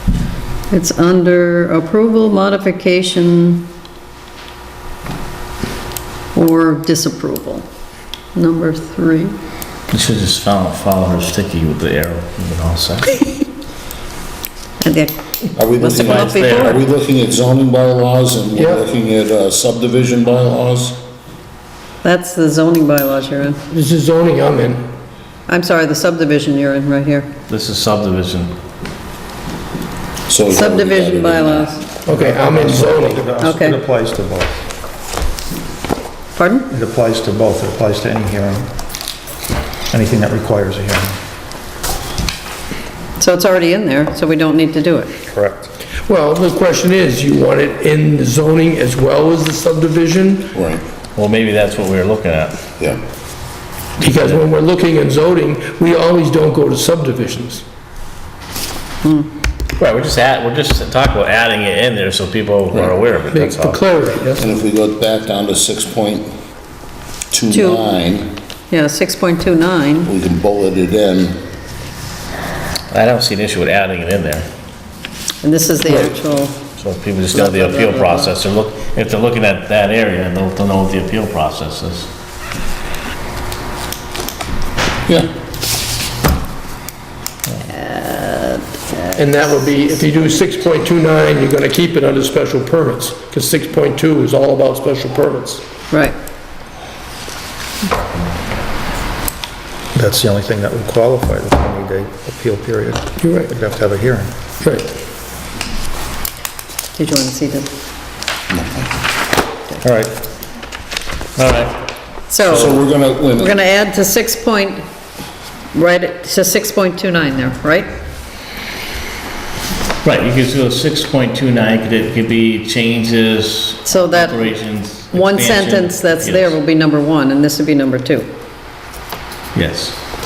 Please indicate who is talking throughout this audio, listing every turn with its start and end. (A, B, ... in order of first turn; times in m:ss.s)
0:00.7-0:03.6 A
0:06.4-0:07.7 A
0:08.4-0:09.3 A
0:09.9-0:13.2 B
0:14.8-0:16.8 A
0:15.6-0:21.0 C
0:15.9-0:16.8 B
0:18.6-0:18.8 D
0:22.0-0:23.6 A
0:23.7-0:24.9 D
0:25.5-0:27.3 A
0:27.5-0:28.5 B
0:30.3-0:31.7 C
0:30.5-0:31.8 A
0:32.0-0:33.3 D
0:32.1-0:34.6 E
0:33.4-0:33.8 A
0:36.4-0:36.7 A
0:36.7-0:38.7 E
0:39.9-0:41.2 E
0:43.2-0:45.1 A
0:45.3-0:45.7 E
0:46.1-0:50.5 D
0:50.5-0:50.8 C
0:51.2-0:52.6 B
0:54.0-0:57.6 D
0:54.1-0:54.4 B
0:59.0-0:59.3 A
0:59.8-1:03.8 B
1:02.7-1:03.2 C
1:03.3-1:04.4 D
1:04.4-1:06.3 C
1:07.3-1:08.3 C
1:07.5-1:07.9 A
1:08.7-1:10.1 A
1:10.0-1:11.4 C
1:12.9-1:14.5 B
1:15.4-1:16.6 A
1:16.8-1:22.1 B
1:17.3-1:18.4 A
1:27.7-1:30.3 A
1:29.2-1:35.6 D
1:35.9-1:36.2 A
1:39.9-1:44.3 E
1:43.2-1:43.5 D
1:44.6-1:44.9 D
1:47.0-1:47.7 A
1:48.5-1:48.9 C
1:49.8-1:50.1 E
1:51.4-1:51.8 B
1:52.3-1:54.8 A
1:52.5-1:53.6 C
1:55.7-1:57.9 A
2:00.0-2:06.6 B
2:03.9-2:04.6 A
2:05.1-2:08.3 A
2:09.5-2:10.0 B